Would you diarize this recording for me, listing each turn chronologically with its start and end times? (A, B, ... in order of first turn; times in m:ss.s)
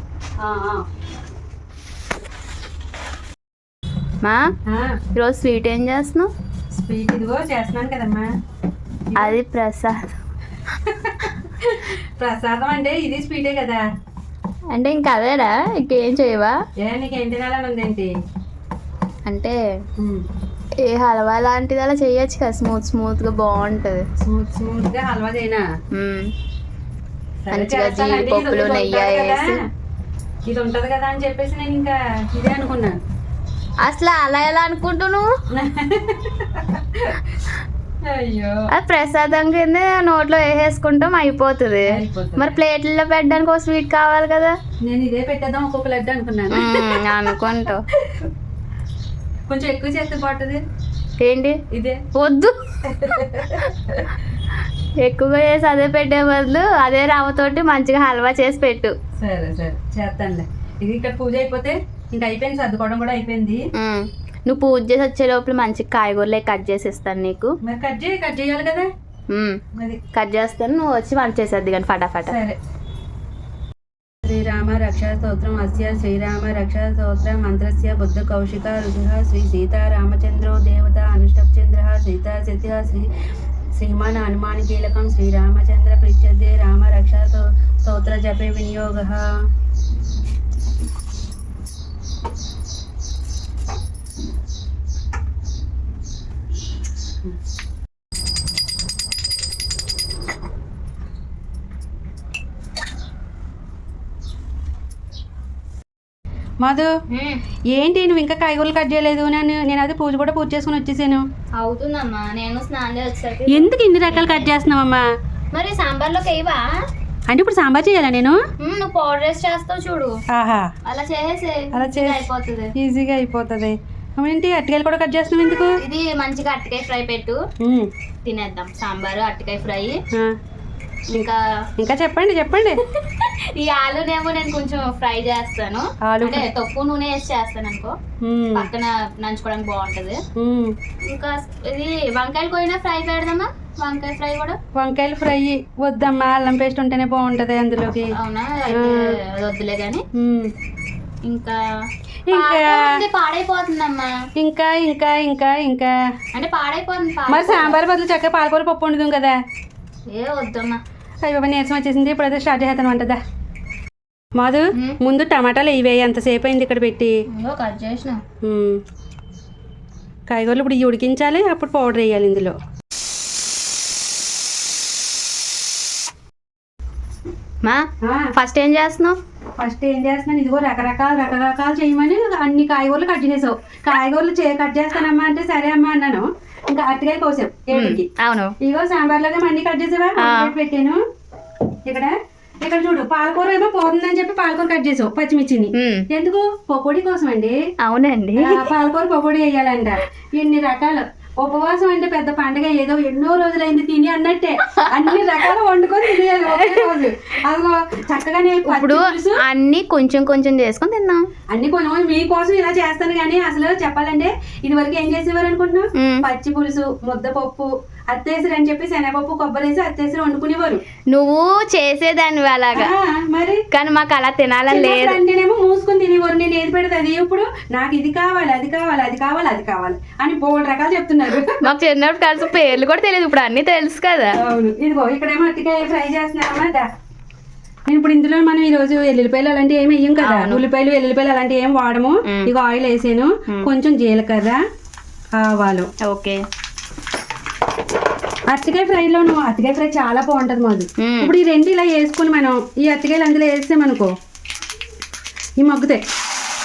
0:00.4-0:00.9 A
0:04.2-0:04.5 B
0:04.7-0:05.0 A
0:05.1-0:06.3 B
0:06.7-0:08.3 A
0:09.1-0:09.4 A
0:09.2-0:10.1 B
0:10.7-0:13.8 A
0:14.7-0:16.6 B
0:16.8-0:18.1 A
0:19.2-0:19.6 B
0:20.0-0:20.3 A
0:20.8-0:24.1 B
0:24.2-0:25.7 A
0:25.9-0:26.3 B
0:27.4-0:29.6 A
0:27.5-0:29.6 B
0:30.5-0:33.0 A
0:33.8-0:35.4 B
0:35.5-0:37.2 A
0:38.0-0:38.7 A
0:38.7-0:44.6 B
0:41.9-0:42.6 A
0:44.8-0:47.0 A
0:46.5-0:47.8 B
0:48.0-0:48.3 A
0:49.5-0:50.6 A
0:51.2-0:51.6 B
0:51.7-0:52.0 A
0:52.1-0:52.6 B
0:52.8-0:54.1 A
0:55.0-0:58.9 B
0:59.2-1:03.7 A
1:03.7-1:07.6 B
1:07.6-1:08.9 A
1:09.3-1:09.6 B
1:09.7-1:10.0 A
1:10.1-1:12.4 B
1:12.2-1:12.6 A
1:14.2-1:23.1 A
1:23.7-1:29.4 A
1:46.6-1:46.9 A
1:47.1-1:47.4 B
1:47.7-1:51.2 A
1:51.5-1:54.5 B
1:53.5-1:55.0 A
1:55.5-1:56.8 B
1:57.3-1:58.4 A
1:58.6-2:00.2 B
2:00.3-2:00.7 A
2:00.8-2:02.7 B
2:01.7-2:05.8 A
2:05.8-2:07.4 B
2:07.6-2:07.9 A
2:08.2-2:10.0 B
2:11.1-2:11.4 B
2:11.8-2:12.8 A
2:12.8-2:18.0 B
2:16.0-2:16.5 A
2:18.2-2:18.7 A
2:18.5-2:20.2 B
2:20.4-2:20.7 A
2:21.0-2:24.6 B
2:24.7-2:28.1 A
2:28.1-2:30.0 B
2:28.7-2:29.0 A
2:30.1-2:30.5 A
2:31.2-2:31.6 B
2:32.2-2:33.0 A
2:32.3-2:34.2 B
2:34.4-2:35.9 A
2:36.3-2:37.8 B
2:37.3-2:39.4 A
2:40.1-2:40.8 B
2:41.2-2:43.2 A
2:44.4-2:47.1 A
2:47.3-2:48.2 B
2:48.4-2:48.8 A
2:50.3-2:52.6 A
2:57.6-2:59.2 B
2:58.0-2:58.3 A
2:59.6-3:08.1 A
3:07.7-3:08.5 B
3:08.6-3:11.0 A
3:10.2-3:10.5 B
3:11.8-3:17.6 A
3:15.7-3:16.1 B
3:17.8-3:18.7 B
3:18.4-3:29.4 A
3:24.6-3:25.4 B
3:26.2-3:27.0 B
3:28.6-3:31.3 B
3:31.5-3:40.8 A
3:36.0-3:36.2 B
3:41.1-3:42.9 B
3:42.7-3:43.6 A
3:43.7-3:45.2 B
3:44.7-3:51.7 A
3:51.5-3:54.4 B
3:54.3-3:56.9 A
3:57.9-4:04.6 A
4:00.2-4:00.6 B
4:02.2-4:02.5 B
4:05.3-4:05.9 A
4:06.0-4:06.4 B
4:08.5-4:14.1 A
4:11.0-4:11.4 B
4:15.6-4:16.1 A